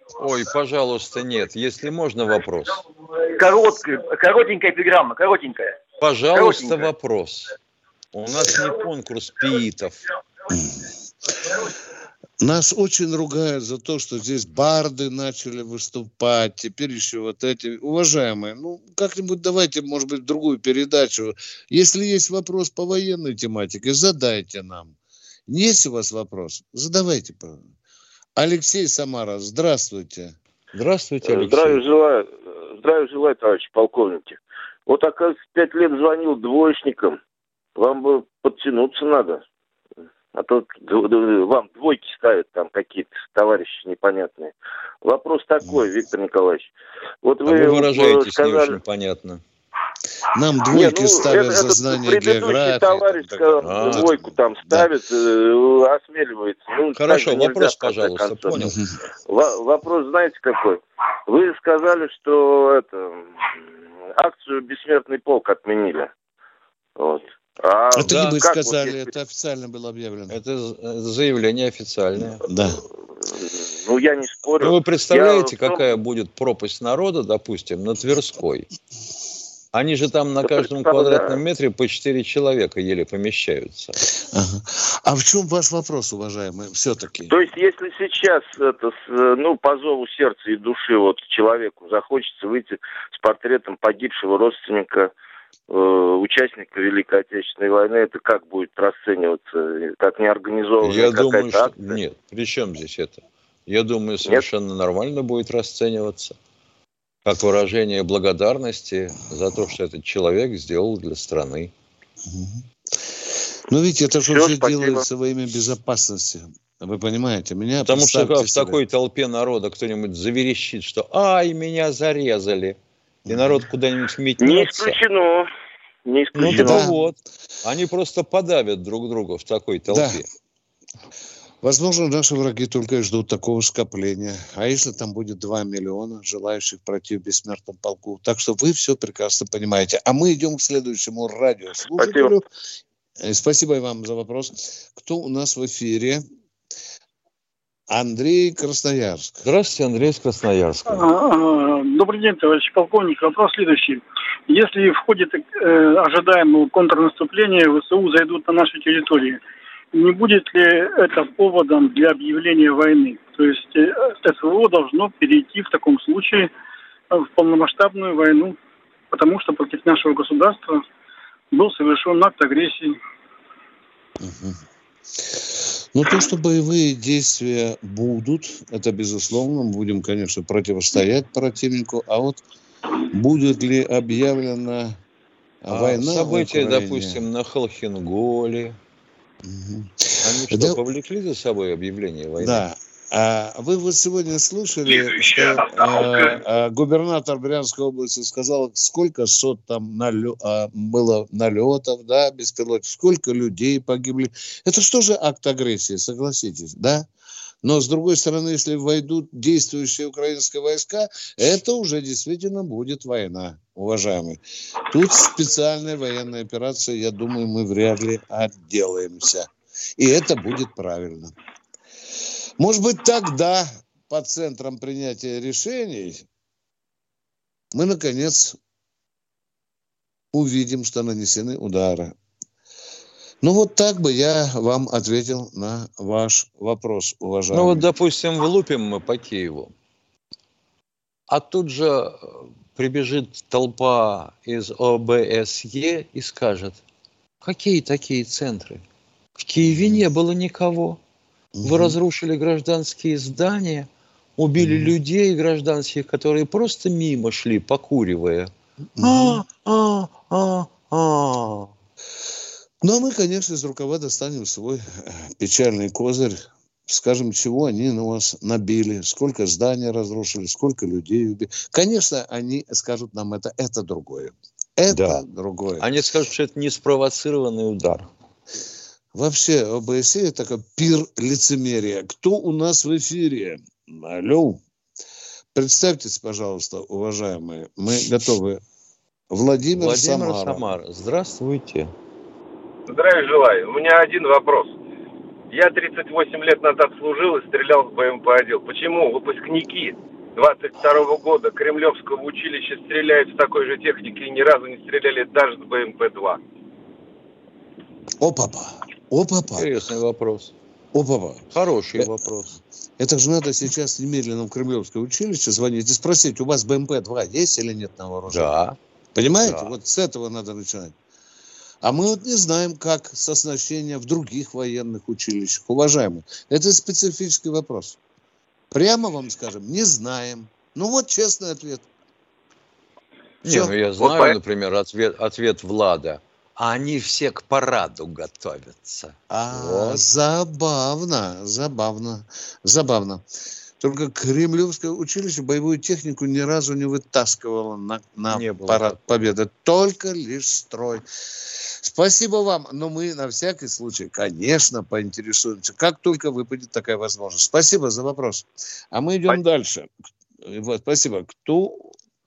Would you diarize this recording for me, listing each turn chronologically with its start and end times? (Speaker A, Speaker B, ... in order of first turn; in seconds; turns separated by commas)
Speaker A: 0.2-2.8, Speaker B: 3.4-5.8, Speaker A: 6.0-7.5, Speaker B: 6.3-6.9, Speaker A: 8.1-10.0, Speaker C: 12.4-24.9, Speaker C: 25.5-27.6, Speaker C: 28.4-30.3, Speaker A: 30.7-31.8, Speaker D: 31.2-37.2, Speaker D: 37.8-39.4, Speaker D: 40.3-46.7, Speaker D: 47.2-48.7, Speaker A: 47.4-49.4, Speaker C: 50.3-54.9, Speaker D: 50.7-58.6, Speaker A: 53.6-54.1, Speaker A: 56.9-58.8, Speaker D: 59.2-63.4, Speaker D: 64.2-66.1, Speaker D: 67.0-69.0, Speaker C: 67.9-70.3, Speaker A: 68.1-68.3, Speaker A: 70.3-72.4, Speaker C: 72.4-72.8, Speaker D: 73.2-75.8, Speaker A: 74.6-78.7, Speaker A: 79.7-84.0, Speaker D: 80.4-81.4, Speaker C: 84.2-87.3, Speaker D: 87.3-95.1, Speaker D: 95.7-102.0, Speaker A: 100.8-106.3, Speaker A: 107.2-111.7, Speaker C: 112.3-112.6, Speaker C: 113.7-118.8, Speaker D: 114.2-115.0, Speaker A: 117.8-122.8, Speaker C: 123.3-123.6, Speaker A: 123.3-125.0, Speaker D: 124.4-125.5, Speaker D: 126.0-126.8, Speaker A: 126.3-130.2, Speaker C: 126.4-127.0, Speaker C: 129.9-130.2, Speaker C: 131.6-142.4, Speaker D: 142.0-142.3, Speaker C: 143.2-146.2, Speaker C: 147.9-149.4, Speaker A: 149.4-151.1, Speaker E: 150.9-159.4, Speaker E: 159.9-166.5, Speaker E: 167.1-168.6, Speaker E: 169.1-170.8, Speaker E: 171.5-173.0, Speaker C: 174.2-174.6, Speaker C: 175.2-182.4, Speaker C: 183.0-185.0, Speaker C: 185.6-187.2, Speaker A: 185.7-188.8, Speaker C: 189.4-190.8, Speaker A: 190.2-192.6, Speaker C: 192.4-207.1, Speaker C: 207.6-221.3, Speaker C: 222.6-226.2, Speaker C: 227.7-228.6, Speaker C: 230.3-232.1, Speaker C: 233.4-237.9, Speaker A: 237.5-239.7, Speaker A: 241.3-246.8, Speaker A: 247.4-248.8, Speaker A: 249.4-251.0, Speaker C: 249.6-250.0, Speaker C: 251.6-252.0, Speaker A: 251.6-261.7, Speaker C: 254.6-254.9, Speaker C: 259.0-259.4, Speaker C: 262.8-275.9, Speaker A: 274.9-275.2, Speaker A: 275.8-278.1, Speaker C: 279.1-284.6, Speaker C: 285.5-288.6, Speaker C: 289.3-290.6, Speaker A: 289.7-291.9, Speaker F: 292.9-294.8, Speaker F: 295.5-306.4, Speaker C: 308.2-309.7, Speaker A: 309.6-310.5, Speaker C: 310.9-311.4, Speaker A: 311.5-312.6, Speaker C: 313.0-318.5, Speaker A: 318.3-318.8, Speaker C: 319.1-320.9, Speaker A: 319.4-319.7, Speaker C: 321.8-328.0, Speaker C: 328.7-331.9, Speaker A: 333.4-340.0, Speaker C: 333.4-334.4, Speaker C: 339.3-343.2, Speaker C: 343.8-351.0, Speaker A: 348.3-348.8, Speaker C: 351.8-359.9, Speaker C: 360.4-361.9